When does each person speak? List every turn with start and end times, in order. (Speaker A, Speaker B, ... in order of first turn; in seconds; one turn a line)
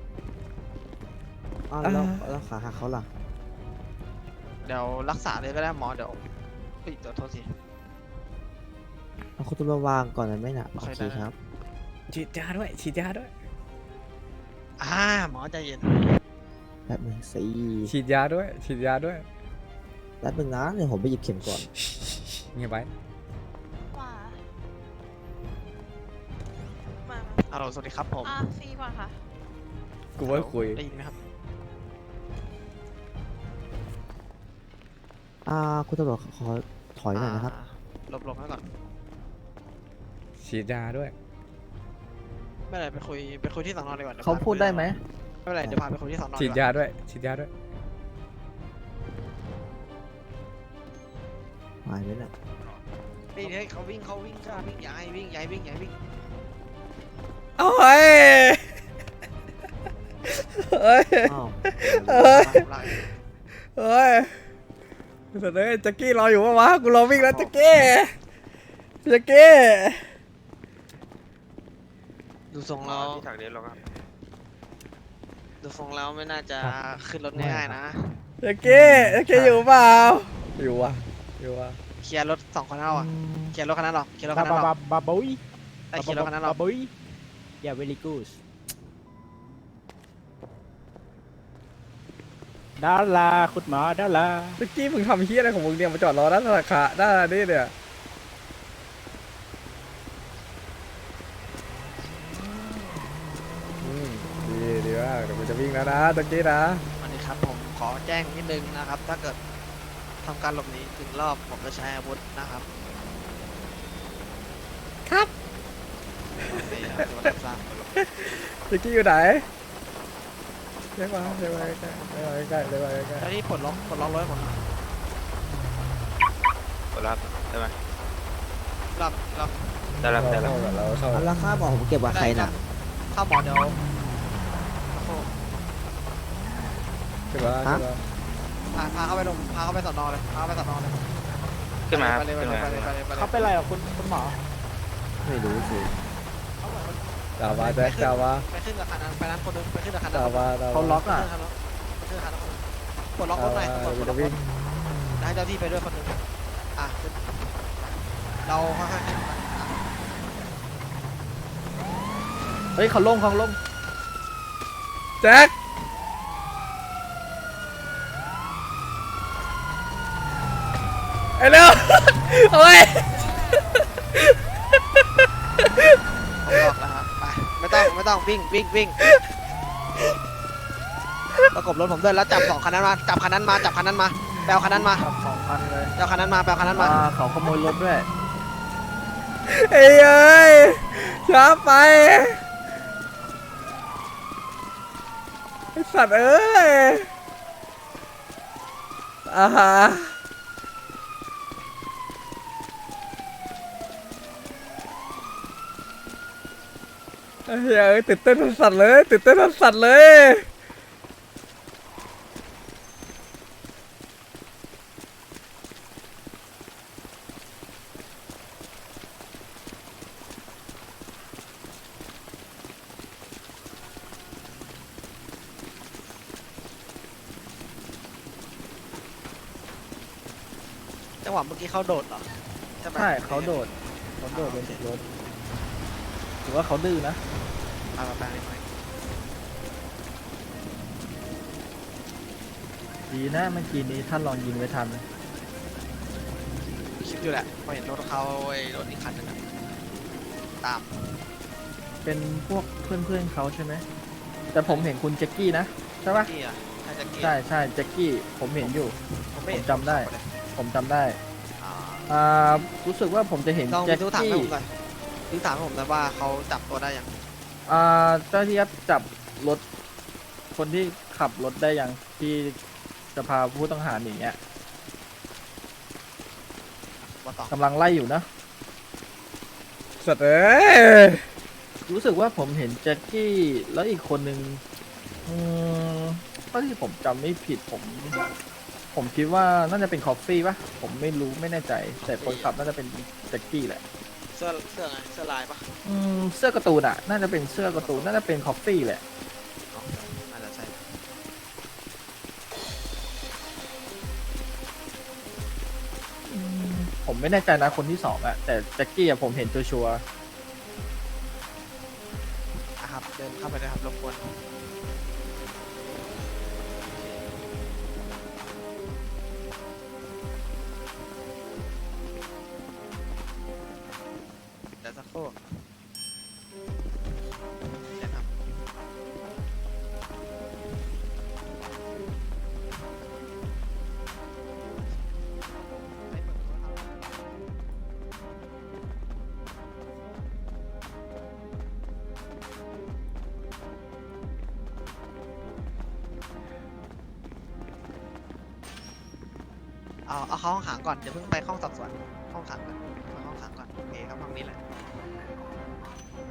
Speaker A: 1.7-3.1
Speaker B: 1.8-2.3
Speaker C: 4.6-6.3
Speaker C: 6.8-7.5
Speaker A: 9.4-11.3
Speaker C: 10.8-11.3
Speaker B: 12.1-13.3
Speaker C: 14.8-16.2
Speaker A: 16.9-18.0
Speaker B: 17.9-19.2
Speaker A: 20.2-21.7
Speaker B: 21.5-22.9
Speaker D: 23.9-24.4
Speaker D: 27.0-29.2
Speaker C: 27.5-28.4
Speaker B: 30.2-30.8
Speaker C: 30.2-31.2
Speaker A: 35.5-37.5
Speaker C: 37.1-38.6
Speaker B: 40.4-41.1
Speaker C: 42.7-44.9
Speaker E: 44.2-45.0
Speaker C: 45.5-46.7
Speaker B: 46.4-47.5
Speaker A: 51.9-52.3
Speaker C: 53.4-55.9
Speaker B: 57.6-58.6
Speaker B: 60.3-62.7
Speaker A: 61.3-62.6
Speaker C: 62.1-63.1
Speaker B: 63.8-64.3
Speaker B: 65.3-68.1
Speaker C: 67.1-67.5
Speaker B: 69.0-70.1
Speaker C: 72.5-73.2
Speaker F: 72.8-73.8
Speaker C: 75.6-78.2
Speaker B: 78.4-81.8
Speaker E: 78.6-79.6
Speaker C: 82.0-84.7
Speaker E: 82.9-83.5
Speaker G: 84.3-85.4
Speaker C: 85.9-86.6
Speaker G: 86.0-86.9
Speaker G: 87.6-88.4
Speaker G: 92.8-94.6
Speaker B: 94.6-97.7
Speaker B: 103.8-106.8
Speaker C: 107.0-109.4
Speaker C: 110.2-112.7
Speaker B: 115.1-115.3
Speaker C: 116.5-117.7
Speaker B: 116.5-117.1
Speaker B: 118.0-119.5
Speaker B: 121.0-123.3
Speaker C: 121.2-121.8
Speaker C: 123.2-124.6
Speaker F: 126.9-127.8
Speaker C: 128.9-129.6
Speaker F: 130.0-130.6
Speaker B: 130.2-131.3
Speaker A: 131.1-132.6
Speaker C: 132.1-133.8
Speaker C: 134.9-135.3
Speaker B: 137.3-138.0
Speaker C: 138.7-141.1
Speaker F: 141.9-143.0
Speaker C: 141.9-143.5
Speaker G: 143.1-144.4
Speaker E: 145.3-145.7
Speaker C: 146.6-154.4
Speaker B: 147.4-148.5
Speaker B: 150.1-151.0
Speaker E: 150.7-151.3
Speaker B: 153.3-154.4
Speaker C: 155.2-156.2
Speaker C: 156.8-157.2
Speaker C: 158.5-160.1
Speaker E: 162.8-163.6
Speaker B: 165.2-165.5
Speaker B: 171.4-175.0
Speaker B: 175.6-176.0
Speaker C: 176.4-179.0
Speaker C: 181.5-185.1
Speaker E: 184.7-185.9
Speaker C: 186.0-187.0
Speaker E: 186.7-188.1
Speaker B: 189.5-192.4
Speaker B: 195.8-197.1
Speaker B: 199.3-200.2
Speaker B: 207.5-210.5
Speaker C: 231.2-233.6
Speaker E: 232.9-235.0
Speaker C: 234.3-234.8
Speaker E: 236.4-237.2
Speaker C: 237.9-238.6
Speaker E: 243.1-245.0
Speaker C: 247.0-249.8
Speaker C: 250.6-251.2
Speaker E: 252.0-253.8
Speaker E: 254.5-256.3
Speaker C: 254.7-254.9
Speaker C: 256.1-257.4
Speaker E: 257.2-259.0
Speaker C: 258.6-260.4
Speaker E: 259.5-261.2
Speaker C: 261.6-262.1
Speaker E: 262.1-264.5
Speaker C: 263.7-264.7
Speaker C: 265.3-267.1
Speaker E: 267.7-269.6
Speaker E: 270.6-272.6
Speaker E: 273.1-274.4
Speaker C: 277.1-277.6
Speaker E: 277.5-278.3
Speaker B: 280.0-281.2
Speaker E: 281.9-284.6
Speaker E: 285.3-288.1
Speaker E: 288.9-293.8
Speaker C: 292.0-292.6
Speaker C: 294.3-295.7
Speaker E: 295.9-299.0
Speaker C: 297.6-298.2
Speaker C: 299.7-301.0
Speaker E: 306.3-310.0
Speaker C: 312.8-314.4
Speaker C: 316.9-317.3
Speaker C: 324.8-325.6
Speaker C: 327.9-328.4
Speaker C: 334.7-335.2
Speaker C: 336.0-337.0
Speaker C: 350.1-354.6